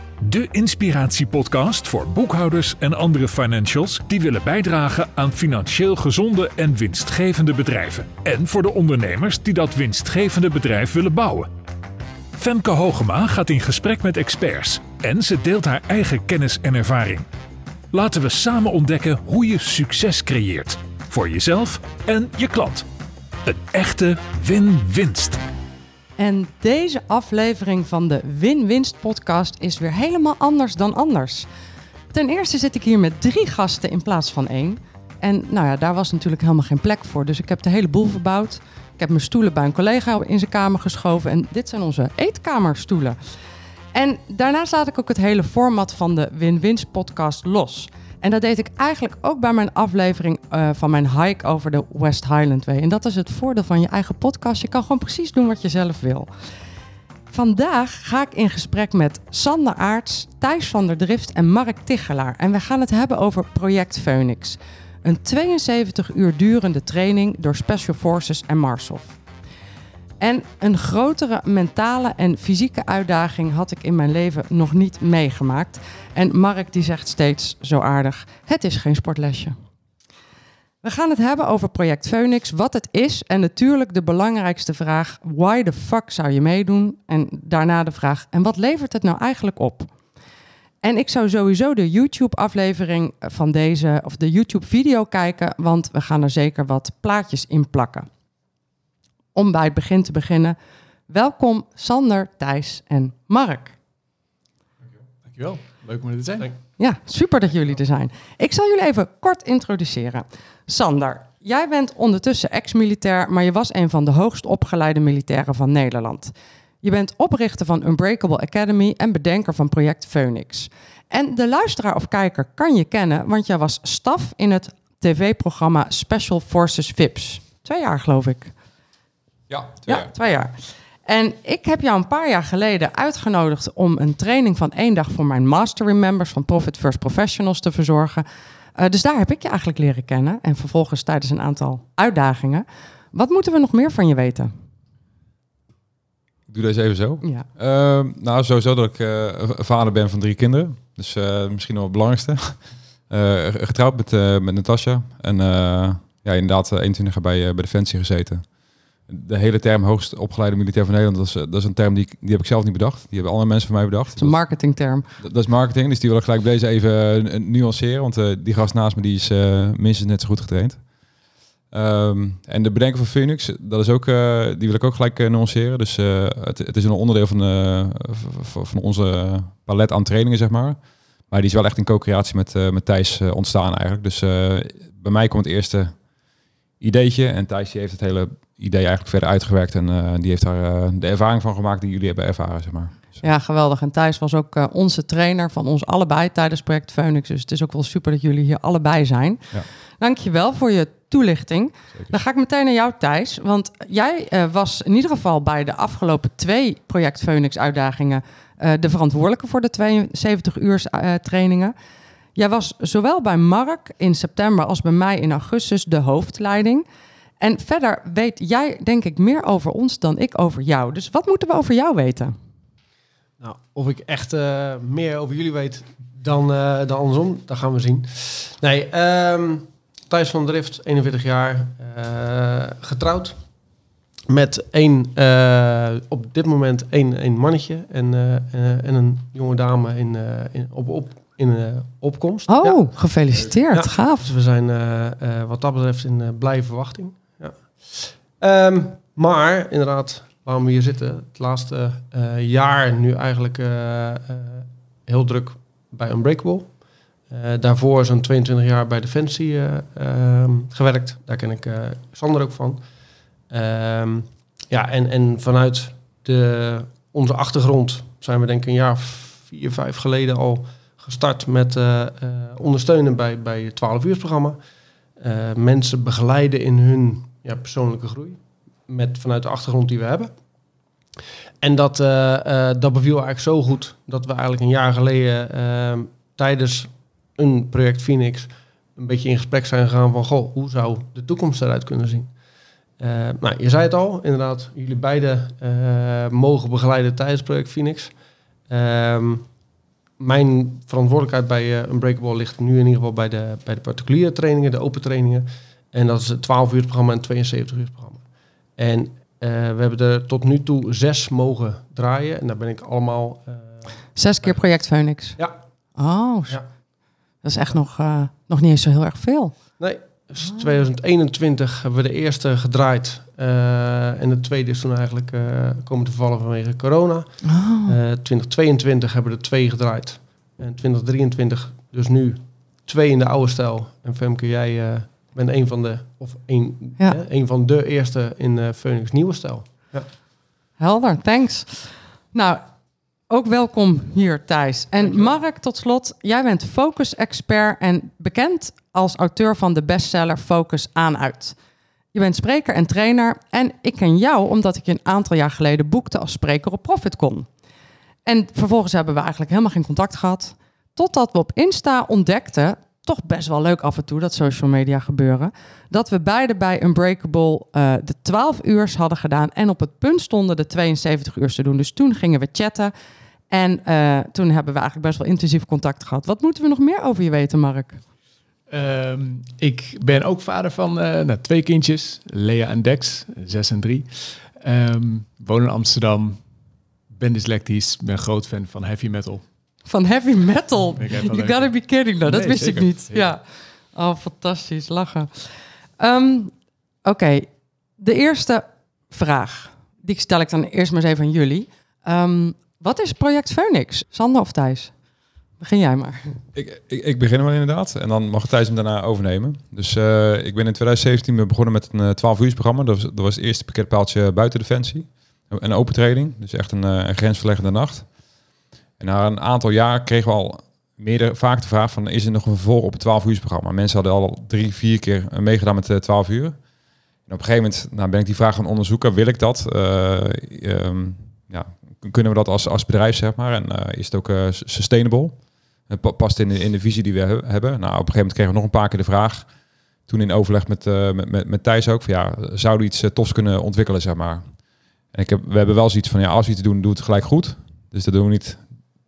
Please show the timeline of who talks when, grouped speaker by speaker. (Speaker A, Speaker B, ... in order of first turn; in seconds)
Speaker A: 0.2-11.5, 12.4-17.3, 17.9-22.9, 23.5-25.4
Speaker B: 26.2-31.5, 32.1-43.2, 43.9-56.3, 57.3-69.2, 70.2-79.6, 80.8-89.9, 90.8-98.1, 99.3-100.6, 101.1-103.8, 106.8-128.5, 129.9-144.5, 147.2-147.5, 164.2-165.1, 193.2-199.5, 200.0-211.7, 212.4-216.8, 217.4-222.3, 242.5-244.2, 314.1-315.4, 316.0-316.6, 317.4-319.6, 327.4-328.0, 340.8-342.6, 343.3-351.6, 352.1-357.5, 358.2-372.9, 373.5-378.0, 389.9-396.5, 397.0-404.9, 405.6-406.4
Speaker C: 105.3-106.5, 378.7-386.4, 387.1-389.4, 391.0-393.3
Speaker D: 129.5-130.1, 146.5-158.5, 159.1-164.4, 165.2-170.8, 171.7-186.0, 186.8-193.2, 406.5-418.1, 419.0-426.6, 427.3-435.4, 435.9-439.5, 440.1-444.5, 445.1-448.6
Speaker E: 223.4-233.4, 234.3-242.9, 243.7-256.7, 257.3-262.8, 263.5-274.6, 275.2-280.3, 281.6-292.3, 293.0-298.1, 298.7-299.5, 300.2-308.2, 308.8-313.8, 319.8-340.1